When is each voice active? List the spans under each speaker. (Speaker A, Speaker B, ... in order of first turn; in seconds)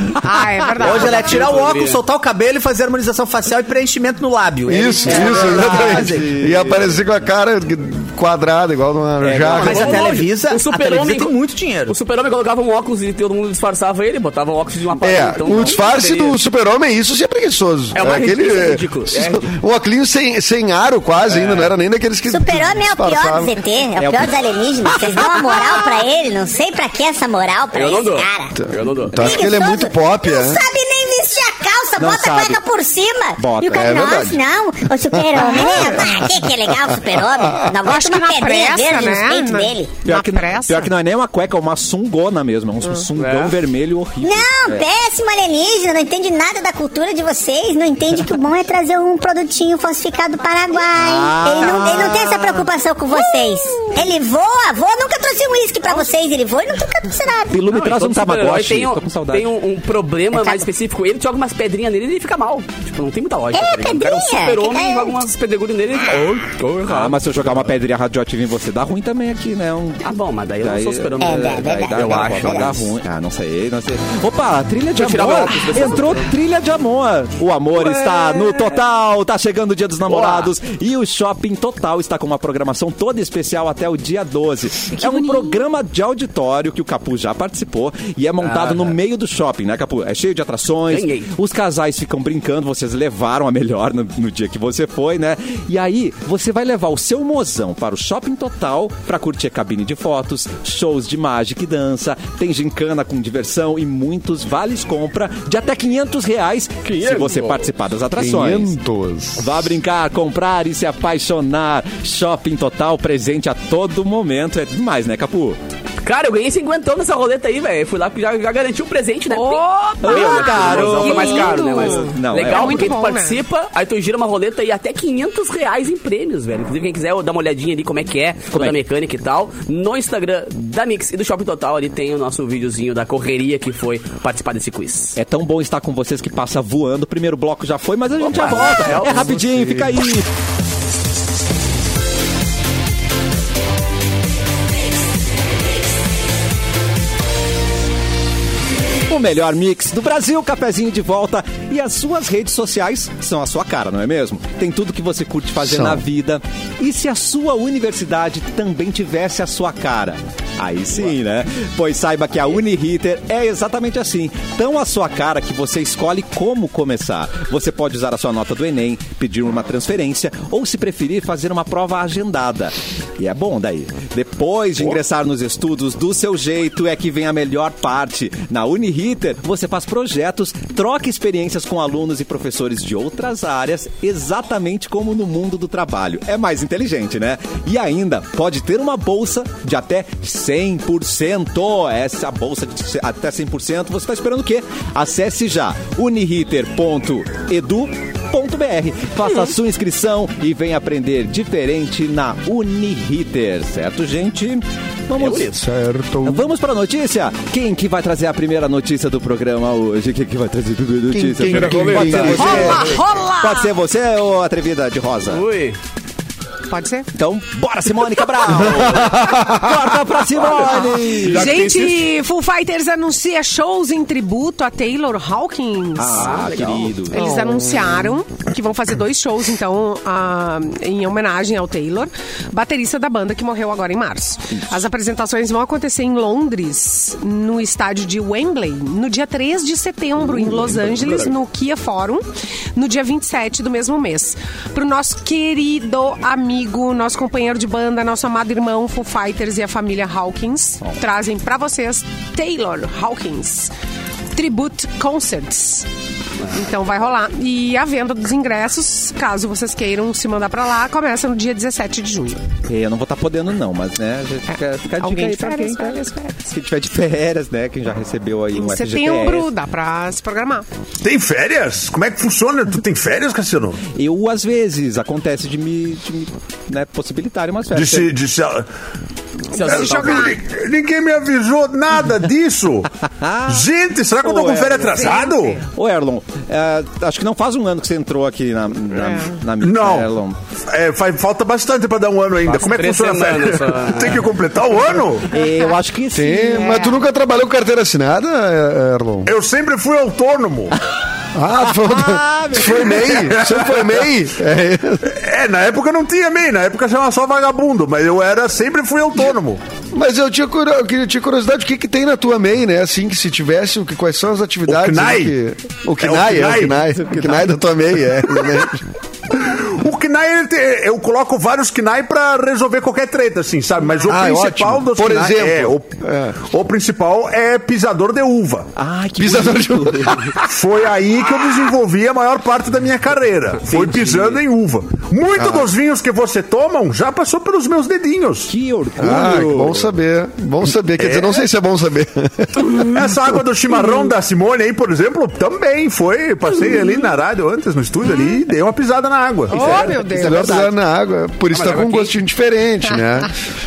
Speaker A: 0.1-1.5, 37.8-40.9, 77.8-78.6, 84.9-85.6, 119.3-123.4, 212.3-213.7, 216.7-217.1, 220.8-226.4, 227.1-253.7, 254.3-255.9, 256.4-262.4, 264.5-266.5, 268.5-270.6, 279.6-280.3, 284.9-285.6, 289.0-289.4, 296.3-297.0, 349.5-350.6
Speaker B: 0.8-6.4, 9.6-11.9
Speaker C: 0.8-2.0, 9.5-11.3, 11.9-16.4, 17.9-19.5, 27.7-29.4, 43.2-43.5, 57.6-67.7, 70.0-72.9, 74.9-76.3, 80.0-80.5, 88.4-88.9, 90.9-91.3, 106.8-107.7, 116.0-135.2, 138.2-139.4, 205.2-205.5, 211.5-212.7, 215.3-215.8, 220.3-221.3, 226.1-226.9, 279.5-280.4, 292.4-294.2, 333.7-334.4, 351.5-352.1
Speaker D: 4.7-10.1, 15.0-23.6, 28.6-30.6, 33.6-34.4, 35.1-37.6, 108.2-109.7, 155.6-156.0, 205.5-206.5, 211.1-212.8, 218.8-219.7, 227.4-227.9, 296.1-299.3, 301.3-305.1, 309.9-318.8, 324.1-326.4, 329.2-330.4, 335.4-335.7, 339.0-343.0, 350.1-353.3
Speaker E: 5.2-7.0, 9.2-9.8, 24.0-24.3, 24.9-25.9, 32.0-32.6, 33.4-34.0, 40.0-44.8, 51.0-52.5, 57.5-59.5, 66.8-70.0, 70.6-108.7, 109.4-115.6, 120.0-123.0, 128.5-128.8, 135.2-140.3, 149.1-205.6, 206.2-215.4, 217.2-221.7, 226.0-227.4, 262.6-269.5, 273.9-278.1, 283.1-283.7, 284.2-290.4, 295.3-296.5, 301.7-303.2, 316.9-317.5, 328.8-330.2, 338.5-339.9, 350.3-350.6
Speaker F: 22.3-28.6, 29.1-40.0, 44.2-57.6, 60.4-60.6, 63.5-65.2, 71.2-72.7
Speaker G: 221.3-221.9, 271.0-273.8, 277.7-278.7, 279.6-282.9, 283.5-285.6, 289.6-290.1, 290.7-295.4, 299.2-300.7, 303.3-303.9, 305.0-309.6, 314.7-315.3, 316.0-316.8, 319.3-328.7, 330.5-338.5, 341.0-341.4, 342.7-350.0